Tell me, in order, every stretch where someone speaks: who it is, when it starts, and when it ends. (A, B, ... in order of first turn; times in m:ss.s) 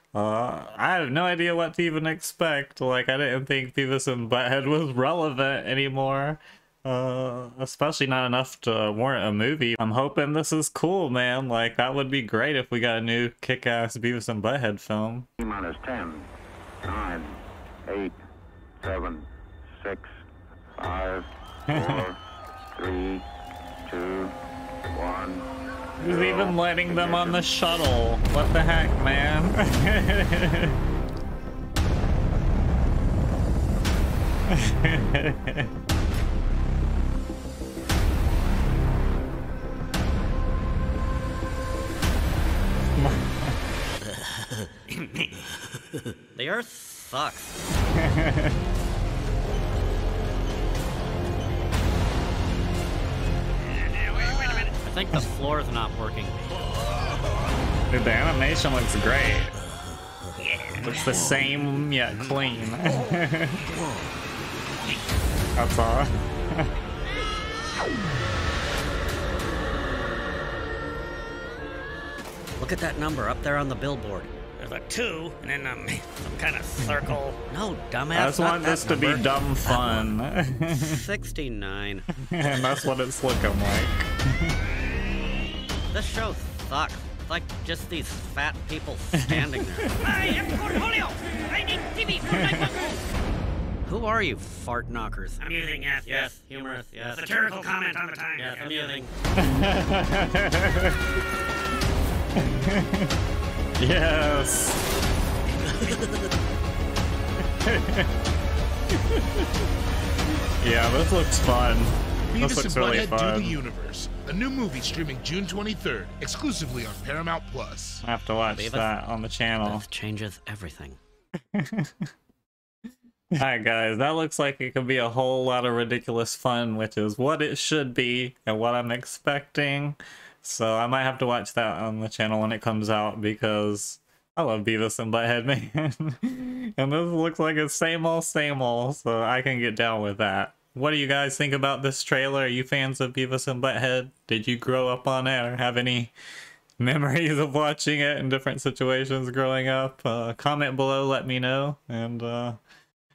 0:00.2-0:15.3 A
0:15.4-0:16.3 B
0:16.8-0:18.2 B
0:18.8-0:19.3 B
0:19.8-0:20.1 B
0:20.8-0:22.2 B
0:21.7-0:22.1 A
0:22.7-0:23.3 B
0:23.9-0:24.4 B
0:24.9-0:25.5 B
0:26.0-0:30.8 A
0:26.0-0:27.5 B
0:34.5-0:35.7 A
0:43.0-0:43.6 A
0:44.9-0:45.3 C
0:46.3-0:47.6 D
0:47.9-0:48.6 A
0:54.0-0:54.7 C
0:54.8-0:56.7 D
0:57.9-0:59.6 A
1:00.6-1:01.1 C
1:00.8-1:03.6 A
1:02.2-1:02.6 D
1:03.6-1:04.1 D
1:05.6-1:06.7 A
1:12.6-1:14.3 D
1:14.6-1:17.4 C
1:16.8-1:17.2 A
1:17.5-1:22.7 D
1:18.1-1:21.0 A
1:22.2-1:24.6 A
1:25.9-1:30.1 D
1:29.1-1:29.9 A
1:30.0-1:32.8 C
1:32.3-1:32.7 A
1:33.8-1:35.4 D
1:35.4-1:38.8 C
1:38.4-1:39.1 D
1:39.4-1:41.0 A
1:42.4-1:43.1 A
1:43.8-1:44.8 A
1:45.7-1:46.1 D
1:47.6-1:48.1 A
1:49.0-1:49.5 A
1:50.6-1:53.6 A
1:52.3-1:58.0 E
1:58.0-1:59.9 A
1:58.4-1:58.9 D
1:59.6-2:01.0 D
2:01.5-2:02.1 A
2:03.4-2:26.1 A
2:26.8-2:32.6 A